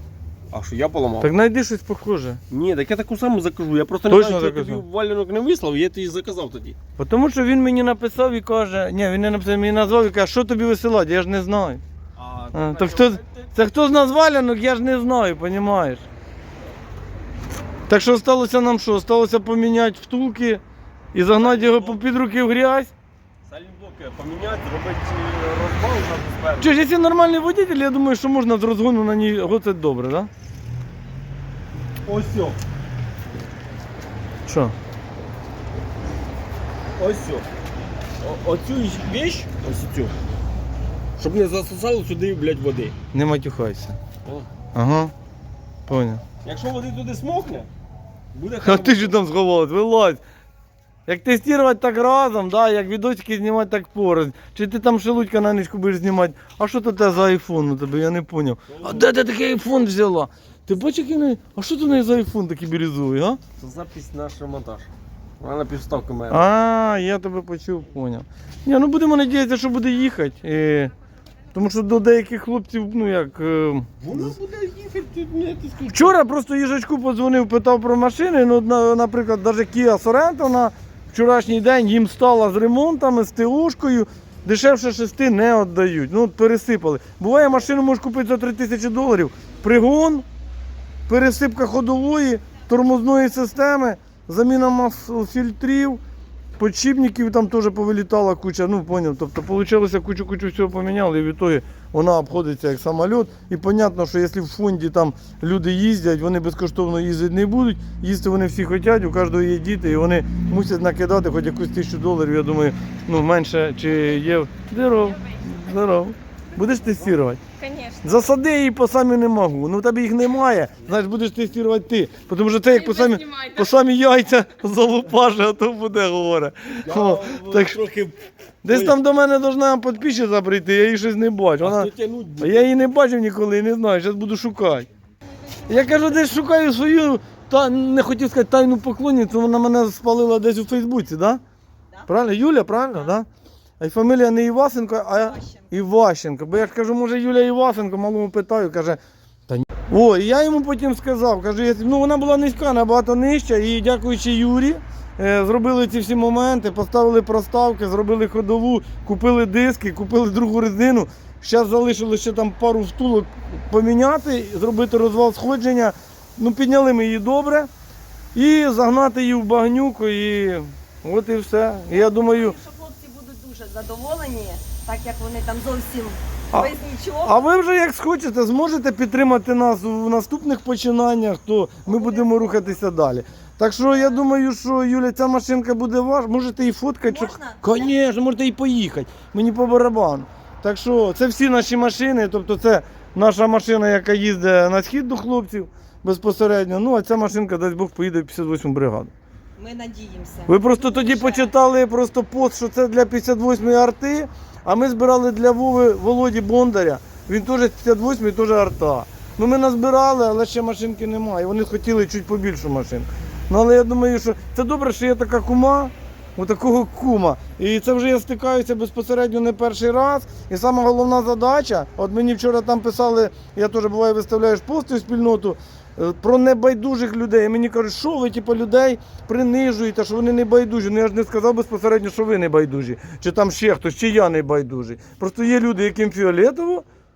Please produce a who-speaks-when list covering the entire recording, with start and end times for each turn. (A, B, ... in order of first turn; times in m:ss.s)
0:00.5-0:01.3 A
0:01.2-0:02.4 B
0:02.5-0:06.8 A
0:04.1-0:04.8 B
0:07.0-0:11.8 B
0:12.2-0:13.6 A
0:12.5-0:16.0 B
0:17.9-0:20.6 B
0:21.1-0:22.9 B
0:21.3-0:22.0 A
0:23.4-0:26.8 A
0:26.6-0:30.3 B
0:32.0-0:32.6 A
0:34.4-0:34.7 B
0:37.0-0:37.4 A
0:38.2-0:40.1 A
0:41.2-0:42.9 A
0:43.1-0:44.0 B
0:44.7-0:45.1 B
0:45.9-0:46.2 B
0:46.4-0:47.7 A
0:48.3-0:49.2 A
0:48.6-0:50.2 B
0:51.1-1:03.4 B
0:58.7-0:59.1 A
1:03.6-1:04.9 A
1:05.4-1:06.5 A
1:06.3-1:10.9 B
1:11.5-1:13.9 B
1:14.0-1:16.2 A
1:15.9-1:30.2 B
1:31.1-1:36.0 B
1:36.6-1:57.4 B
1:57.6-1:58.0 C
1:58.0-2:07.8 B
2:06.8-2:09.0 A
2:08.6-2:14.9 B
2:11.6-2:12.7 A
2:15.7-2:21.4 B
2:21.9-2:23.1 C
2:22.1-2:23.3 B
2:23.8-2:47.7 B
2:25.1-2:25.7 C
2:48.3-2:52.6 B
2:51.9-2:57.5 C
2:57.2-3:19.1 B
3:01.8-3:02.5 C
3:07.0-3:07.9 C
3:19.6-3:21.5 C
3:20.5-3:56.8 B